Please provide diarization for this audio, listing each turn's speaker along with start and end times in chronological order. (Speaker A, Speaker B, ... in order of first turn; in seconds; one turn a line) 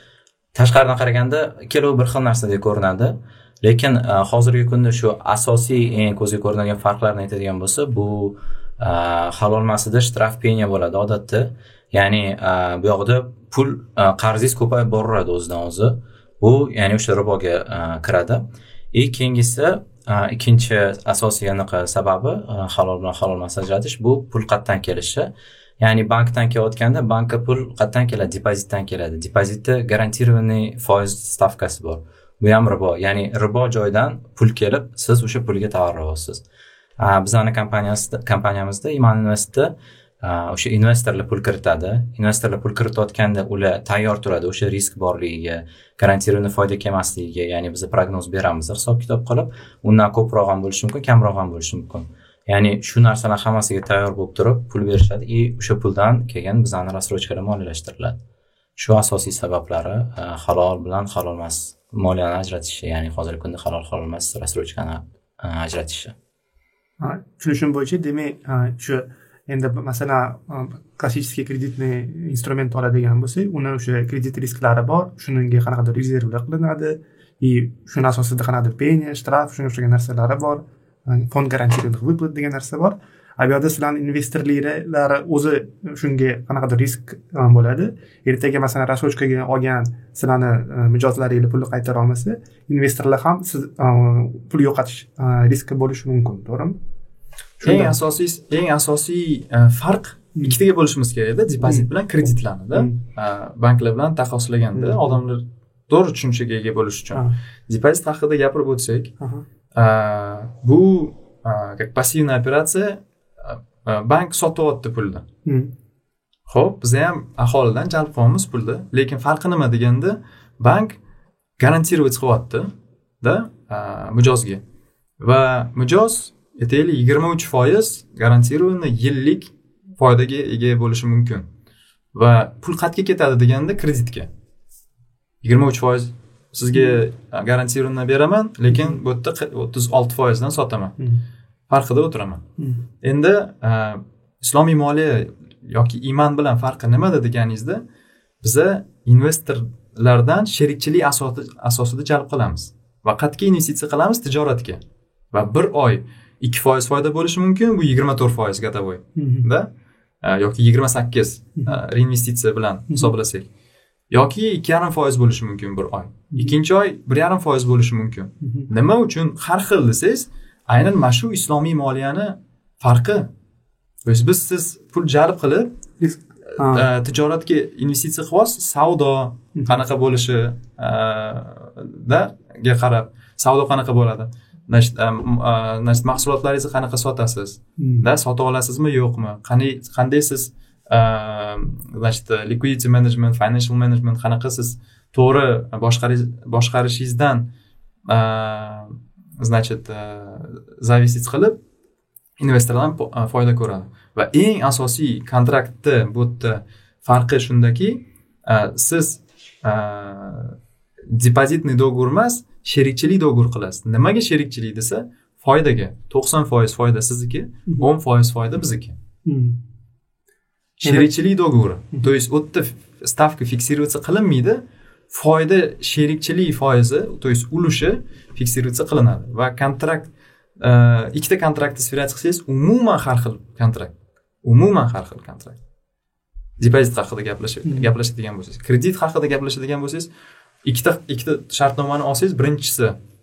Speaker A: 0.5-36.4
Speaker A: 37.0-58.2
Speaker A: 58.8-66.1
Speaker B: 67.0-96.8
Speaker B: 97.6-97.9
Speaker C: 97.6-109.1
Speaker B: 102.7-103.0
Speaker B: 104.7-105.2
Speaker B: 109.2-109.4
Speaker C: 109.7-115.2
Speaker B: 115.5-115.7
Speaker C: 116.5-121.0
Speaker C: 121.6-124.6
Speaker C: 125.2-131.5
Speaker C: 132.1-134.3
Speaker C: 135.4-140.9
Speaker B: 136.7-137.0
Speaker B: 138.7-139.0
Speaker C: 141.7-142.4
Speaker C: 143.0-147.8
Speaker C: 148.4-154.8
Speaker C: 155.3-159.7
Speaker B: 159.2-159.5
Speaker C: 160.2-163.5
Speaker C: 164.1-173.3
Speaker B: 168.4-168.7
Speaker C: 174.0-175.7
Speaker B: 176.0-176.8
Speaker C: 176.5-197.5
Speaker B: 187.8-188.1
Speaker C: 198.1-201.6
Speaker C: 202.4-210.5
Speaker C: 211.1-218.9
Speaker B: 219.2-219.6
Speaker C: 220.8-235.6
Speaker C: 236.6-240.1
Speaker B: 237.6-237.9
Speaker C: 240.6-243.0